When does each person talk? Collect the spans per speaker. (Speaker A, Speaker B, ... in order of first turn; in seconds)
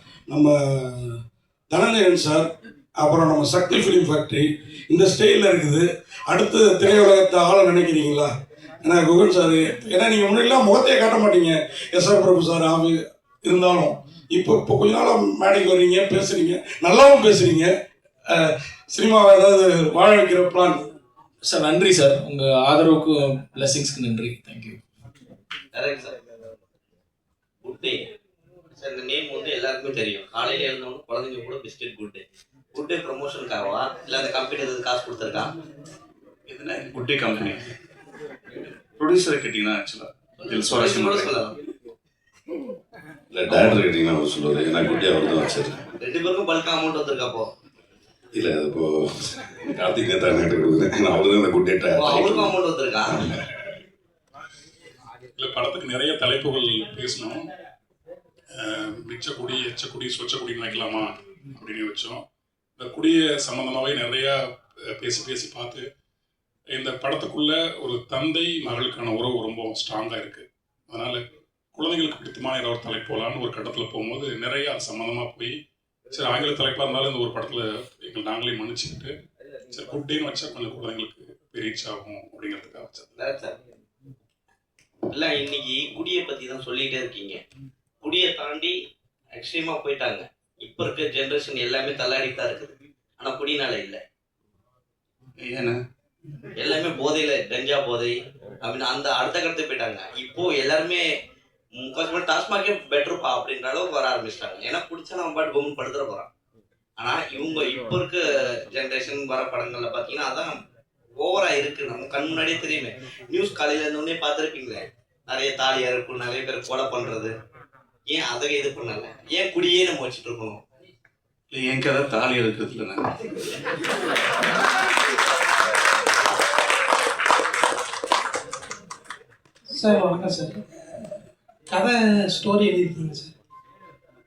Speaker A: 0.3-8.3, 8.8-17.7, 18.3-20.8
Speaker B: 21.4-24.8
Speaker C: 25.7-26.1, 27.6-28.0, 28.8-32.2, 32.7-35.5, 40.7-41.5, 46.0-47.5, 52.0-53.1, 83.2-83.6, 85.1-87.4, 88.0-88.7, 89.3-94.0, 96.6-101.0, 101.8-106.3, 107.0-110.5, 111.2-117.3, 118.1-120.6
Speaker D: 36.5-37.6, 39.0-41.4, 95.4-95.8, 121.5-123.1
Speaker E: 43.3-45.8, 48.3-53.7
Speaker F: 55.4-57.4, 58.5-62.2, 62.8-64.4, 65.0-65.8, 66.8-71.2, 71.7-75.5, 76.1-79.1, 79.7-83.1
Speaker G: 129.7-130.6, 131.7-133.3